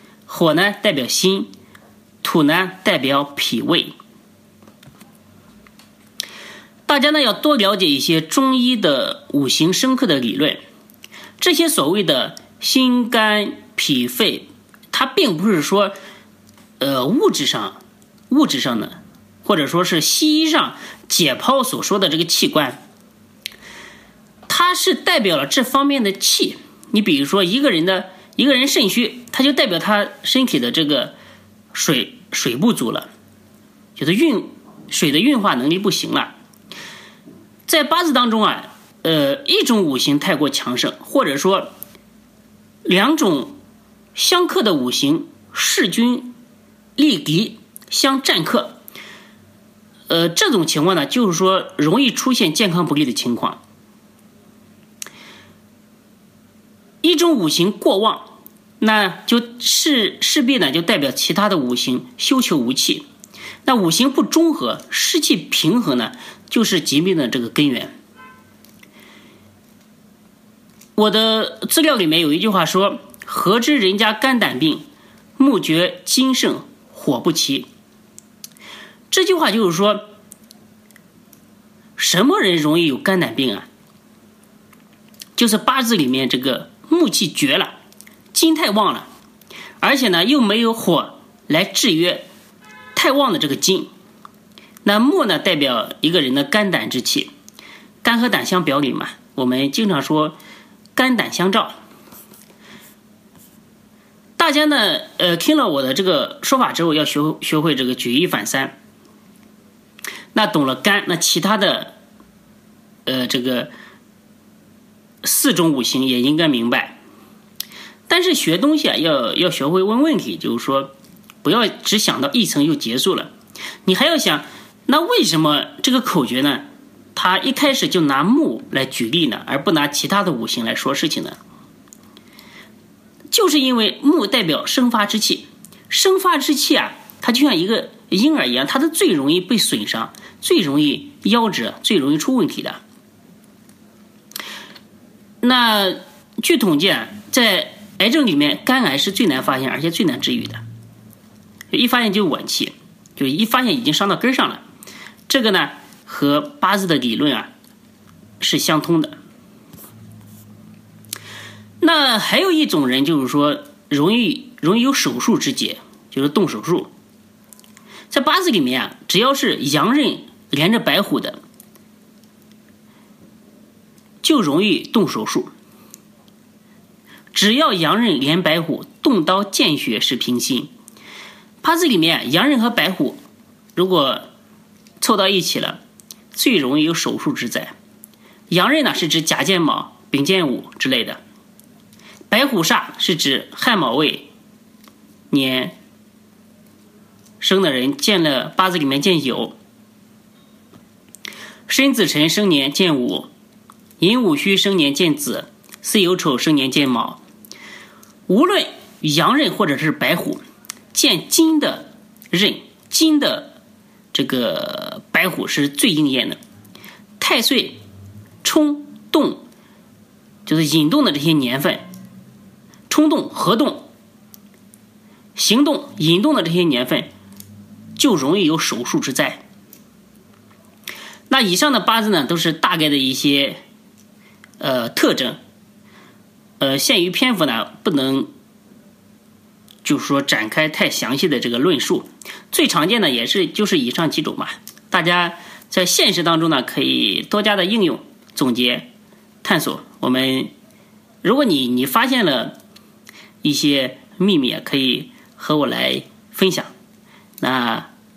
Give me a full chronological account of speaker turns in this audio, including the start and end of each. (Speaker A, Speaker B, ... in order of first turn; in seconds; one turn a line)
Speaker A: 0.3-1.5
Speaker A: 2.2-3.9
Speaker A: 6.9-10.6
Speaker A: 11.4-15.9
Speaker A: 16.8-22.8
Speaker A: 24.5-31.2
Speaker A: 31.7-33.1
Speaker A: 34.0-36.3
Speaker A: 37.7-41.7
Speaker A: 42.9-43.6
Speaker A: 44.1-46.4
Speaker A: 47.0-48.8
Speaker A: 50.1-53.6
Speaker A: 57.0-63.0
Speaker A: 63.6-67.9
Speaker A: 71.0-74.9
Speaker A: 75.4-77.7
Speaker A: 79.1-80.1
Speaker A: 82.0-83.7
Speaker A: 85.4-87.8
Speaker A: 88.3-89.1
Speaker A: 89.8-92.3
Speaker A: 93.0-93.9
Speaker A: 94.8-97.3
Speaker A: 98.0-100.4
Speaker A: 101.0-101.7
Speaker A: 104.4-108.8
Speaker A: 110.3-112.0
Speaker A: 113.1-113.7
Speaker A: 115.2-117.0
Speaker A: 118.1-123.3
Speaker A: 123.8-131.4
Speaker A: 133.3-142.8
Speaker A: 145.4-150.6
Speaker A: 151.7-154.6
Speaker A: 155.3-157.5
Speaker A: 158.4-159.2
Speaker A: 161.8-166.9
Speaker A: 168.1-171.4
Speaker A: 174.2-175.5
Speaker A: 177.3-180.7
Speaker A: 181.6-183.2
Speaker A: 183.8-184.3
Speaker A: 185.0-185.8
Speaker A: 186.3-187.7
Speaker A: 188.5-191.2
Speaker A: 192.3-194.3
Speaker A: 195.3-195.8
Speaker A: 197.4-199.6
Speaker A: 201.7-203.3
Speaker A: 204.0-207.2
Speaker A: 208.3-210.4
Speaker A: 210.9-213.6
Speaker A: 214.1-216.4
Speaker A: 217.2-217.8
Speaker A: 218.4-219.4
Speaker A: 220.5-221.8
Speaker A: 222.9-223.9
Speaker A: 225.4-227.1
Speaker A: 228.0-229.4
Speaker A: 231.3-233.6
Speaker A: 234.6-235.4
Speaker A: 236.6-238.3
Speaker A: 239.8-248.9
Speaker A: 249.4-250.5
Speaker A: 251.2-252.6
Speaker A: 253.4-256.7
Speaker A: 257.4-257.9